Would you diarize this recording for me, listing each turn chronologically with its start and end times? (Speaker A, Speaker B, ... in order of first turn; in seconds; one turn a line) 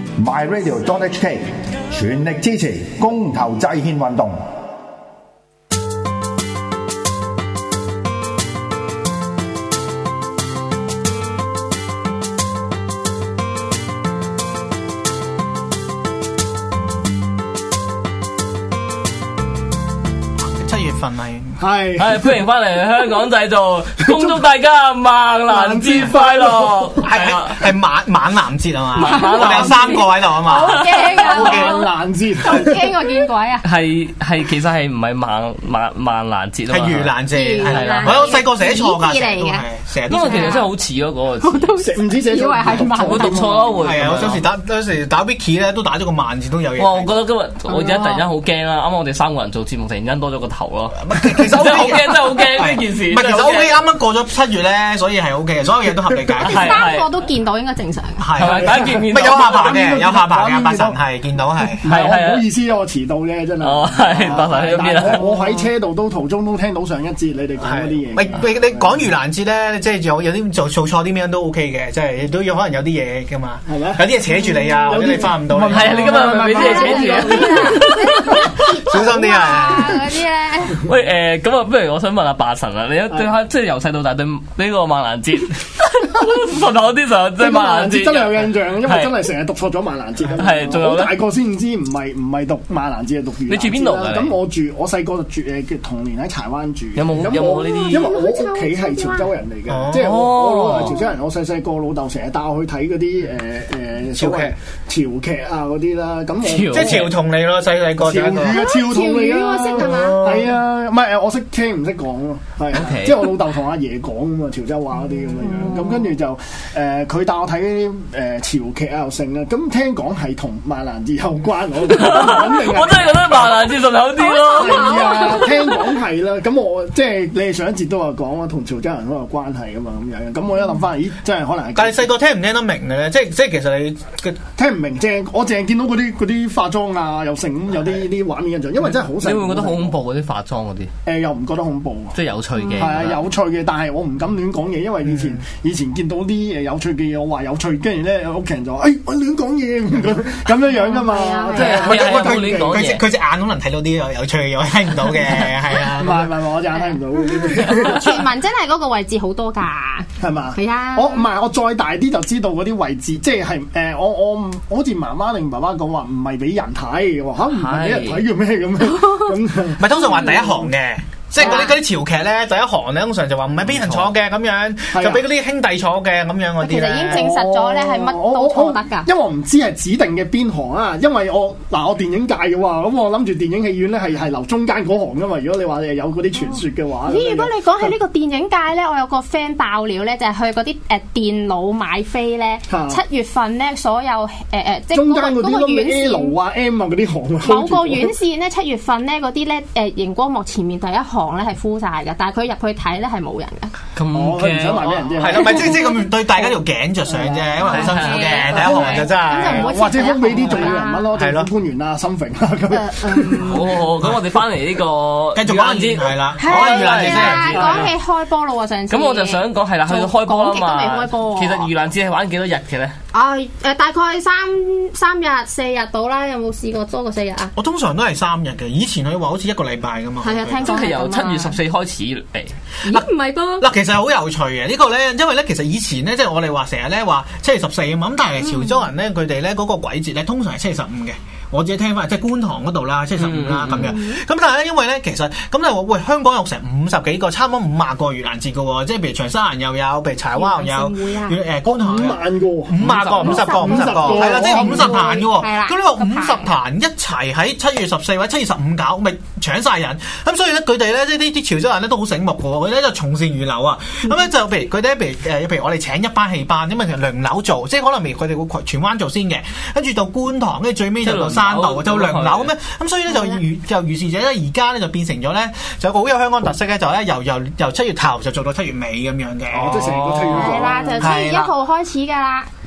Speaker A: 0.1-4.4
Speaker B: 20.4-21.6
Speaker C: 21.6-22.3
Speaker D: 22.0-27.7
Speaker C: 24.1-24.4
Speaker C: 25.5-26.9
Speaker B: 27.0-31.8
Speaker D: 28.9-30.0
Speaker E: 29.0-33.6
Speaker D: 30.6-31.2
Speaker C: 31.1-33.0
Speaker D: 33.6-38.3
Speaker B: 36.7-40.7
Speaker E: 37.3-39.6
Speaker D: 40.1-41.7
Speaker E: 40.2-40.7
Speaker E: 41.4-43.5
Speaker C: 41.8-44.1
Speaker D: 42.9-44.4
Speaker B: 43.8-47.1
Speaker D: 46.8-53.8
Speaker E: 47.7-48.2
Speaker B: 51.0-56.9
Speaker E: 56.4-58.2
Speaker D: 56.4-57.1
Speaker B: 58.2-61.8
Speaker D: 58.4-59.7
Speaker C: 58.4-61.0
Speaker C: 61.8-69.0
Speaker D: 61.8-62.5
Speaker D: 63.6-65.3
Speaker E: 65.2-65.7
Speaker B: 67.6-76.4
Speaker C: 73.7-78.7
Speaker D: 75.7-78.6
Speaker E: 76.4-80.8
Speaker B: 78.5-80.1
Speaker D: 80.7-89.3
Speaker C: 87.4-107.1
Speaker D: 90.4-91.2
Speaker D: 93.5-94.3
Speaker D: 97.0-98.2
Speaker E: 97.5-99.3
Speaker B: 99.7-100.3
Speaker D: 99.9-101.0
Speaker B: 104.1-104.5
Speaker D: 106.4-107.1
Speaker B: 106.7-108.6
Speaker C: 108.0-123.5
Speaker E: 108.4-110.2
Speaker B: 109.7-110.6
Speaker D: 112.7-113.3
Speaker E: 115.4-116.0
Speaker D: 121.8-125.2
Speaker E: 124.2-125.8
Speaker C: 124.5-132.1
Speaker B: 131.7-134.4
Speaker C: 134.6-139.9
Speaker D: 138.8-140.9
Speaker C: 141.0-142.2
Speaker D: 142.1-143.2
Speaker E: 142.6-143.0
Speaker C: 142.8-152.9
Speaker B: 145.0-145.4
Speaker E: 150.7-151.9
Speaker D: 151.5-153.0
Speaker B: 151.7-156.4
Speaker C: 155.8-158.3
Speaker E: 157.6-161.3
Speaker C: 160.2-170.7
Speaker D: 167.4-168.2
Speaker B: 169.8-177.3
Speaker E: 171.4-171.7
Speaker D: 173.7-174.1
Speaker C: 174.9-175.2
Speaker E: 176.6-179.1
Speaker C: 177.1-187.9
Speaker E: 186.4-196.4
Speaker C: 192.7-193.0
Speaker C: 194.9-198.1
Speaker E: 197.4-203.7
Speaker D: 203.9-205.3
Speaker C: 204.1-205.8
Speaker B: 205.2-209.8
Speaker E: 205.4-206.0
Speaker C: 207.1-207.8
Speaker D: 207.6-208.4
Speaker E: 207.6-211.1
Speaker C: 208.5-213.6
Speaker B: 211.1-211.5
Speaker E: 212.7-213.6
Speaker D: 213.4-217.9
Speaker B: 215.3-217.9
Speaker E: 216.4-221.7
Speaker D: 218.9-223.0
Speaker E: 223.1-227.5
Speaker B: 227.6-230.8
Speaker E: 230.2-231.6
Speaker D: 230.6-232.6
Speaker E: 232.8-233.7
Speaker B: 233.6-280.0
Speaker E: 238.4-238.9
Speaker D: 243.2-243.9
Speaker E: 243.7-244.2
Speaker E: 250.3-251.4
Speaker C: 251.7-255.0
Speaker D: 252.8-253.3
Speaker E: 253.2-256.5
Speaker D: 271.0-272.5
Speaker E: 273.1-273.4
Speaker C: 279.5-281.1
Speaker D: 279.6-280.8
Speaker E: 280.3-282.5
Speaker B: 281.0-281.5